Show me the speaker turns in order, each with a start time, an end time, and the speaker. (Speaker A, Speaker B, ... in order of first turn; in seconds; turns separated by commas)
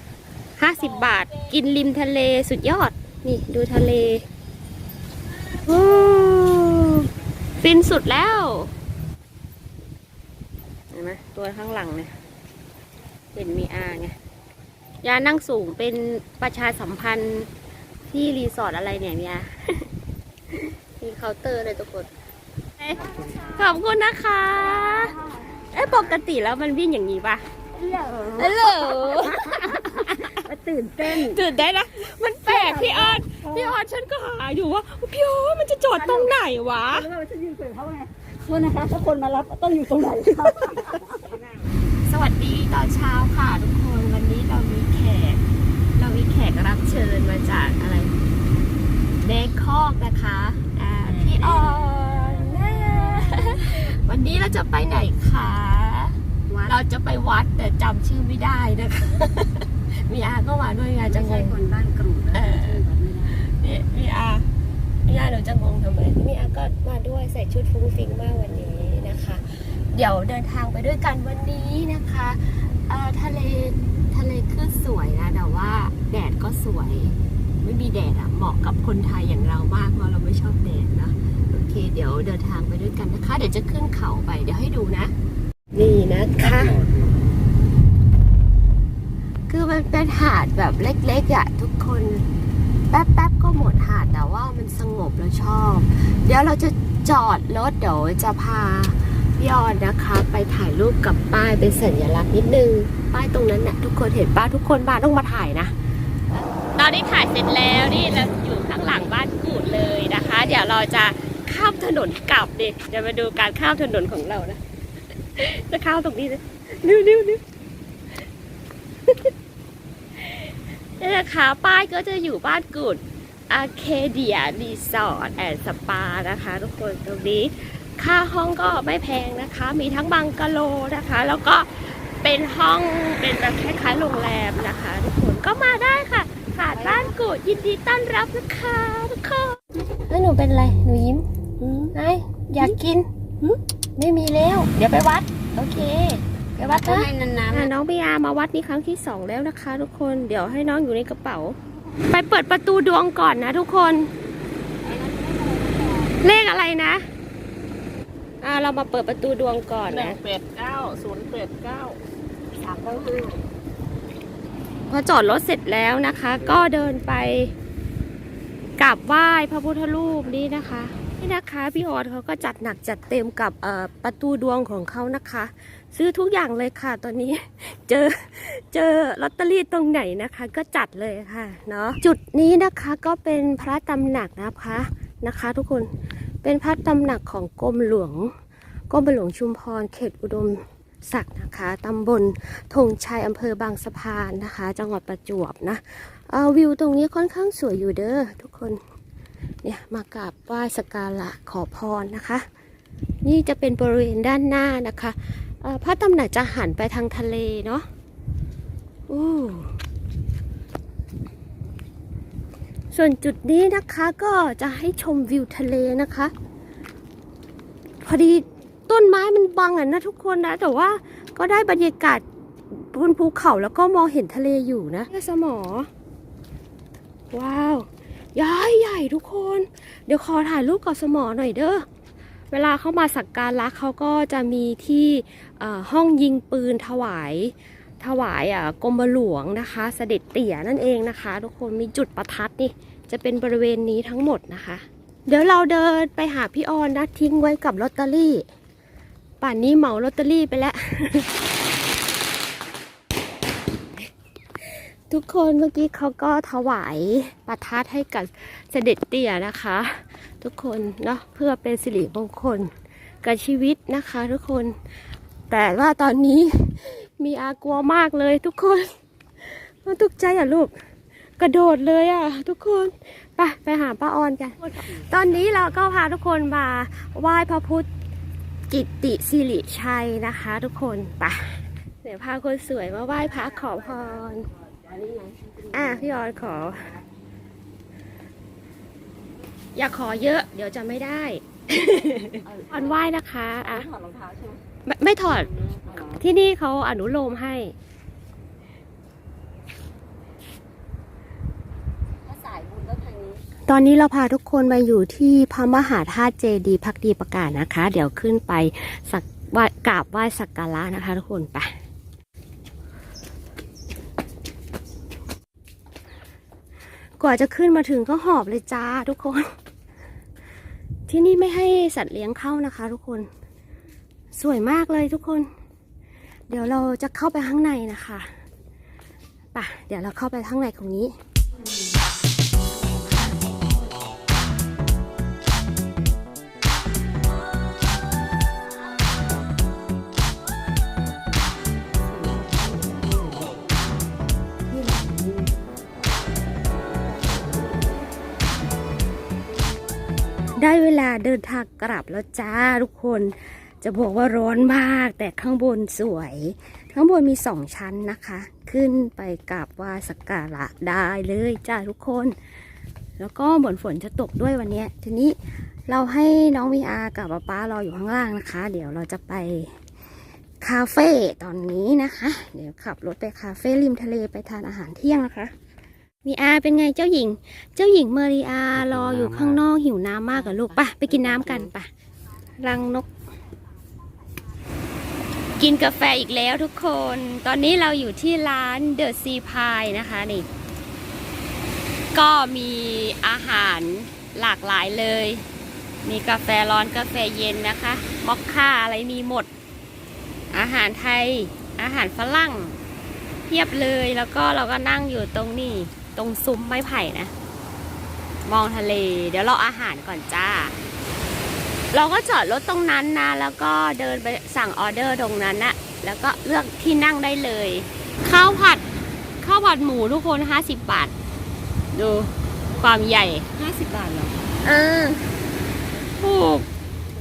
Speaker A: 0.6-4.2, Speaker A: 5.6-7.1, Speaker A: 7.6-8.7, Speaker A: 10.9-12.1, Speaker A: 13.3-14.2, Speaker A: 15.0-17.5, Speaker A: 18.1-19.9, Speaker A: 20.6-22.1, Speaker A: 22.8-25.2, Speaker B: 23.1-23.5, Speaker A: 25.7-27.5, Speaker B: 27.8-31.4, Speaker A: 28.3-30.4, Speaker A: 31.0-37.1, Speaker B: 32.4-33.8, Speaker B: 35.9-36.4, Speaker B: 36.9-41.4, Speaker A: 42.0-45.4, Speaker A: 46.0-48.1, Speaker A: 49.2-61.6, Speaker B: 51.0-52.0, Speaker B: 56.5-56.8, Speaker B: 61.1-63.4, Speaker A: 62.3-62.8, Speaker A: 63.4-64.5, Speaker A: 65.1-85.1, Speaker A: 85.7-87.0, Speaker A: 89.5-92.2, Speaker A: 92.9-105.7, Speaker A: 106.8-114.6, Speaker A: 115.3-117.4, Speaker A: 120.2-141.2, Speaker B: 136.7-137.1, Speaker B: 141.6-141.9, Speaker A: 141.9-143.1, Speaker A: 144.0-151.6, Speaker B: 146.6-147.7, Speaker A: 152.1-154.1, Speaker B: 154.8-156.1, Speaker A: 156.2-157.1, Speaker A: 158.4-160.2, Speaker C: 160.0-162.0, Speaker B: 162.6-163.4, Speaker A: 164.9-167.5, Speaker A: 168.8-185.9, Speaker A: 186.4-188.3, Speaker A: 188.9-198.8, Speaker A: 199.6-202.4, Speaker A: 203.2-207.9, Speaker A: 209.1-209.7, Speaker A: 212.9-216.3, Speaker A: 218.0-225.9, Speaker A: 227.3-231.9, Speaker A: 232.5-248.4, Speaker A: 249.4-251.3, Speaker A: 255.1-262.7, Speaker A: 263.2-264.8, Speaker A: 265.5-268.9, Speaker A: 269.4-270.7, Speaker A: 271.4-277.9, Speaker A: 278.7-284.5, Speaker B: 284.8-286.2, Speaker A: 285.7-286.9, Speaker A: 289.8-293.9, Speaker B: 292.4-293.0, Speaker B: 293.6-294.6, Speaker A: 294.9-295.5, Speaker B: 295.3-296.2, Speaker A: 296.2-297.7, Speaker B: 302.2-303.4, Speaker A: 303.7-311.7, Speaker A: 317.2-319.5, Speaker A: 321.1-323.3, Speaker A: 324.3-325.5, Speaker A: 326.5-328.3, Speaker A: 329.5-331.1, Speaker B: 342.1-343.5, Speaker B: 344.7-345.5, Speaker A: 350.6-362.4, Speaker A: 363.2-365.4, Speaker A: 365.9-369.7, Speaker A: 370.6-375.5, Speaker A: 376.2-381.9, Speaker B: 380.3-381.7, Speaker A: 382.6-383.1, Speaker A: 385.6-390.5, Speaker A: 392.1-395.4, Speaker A: 396.0-399.5, Speaker A: 400.5-402.8, Speaker A: 403.5-407.3, Speaker A: 408.5-410.8, Speaker A: 411.9-418.8, Speaker A: 419.4-421.1, Speaker A: 421.9-423.5, Speaker B: 423.6-424.4, Speaker A: 424.6-425.2, Speaker A: 426.2-426.7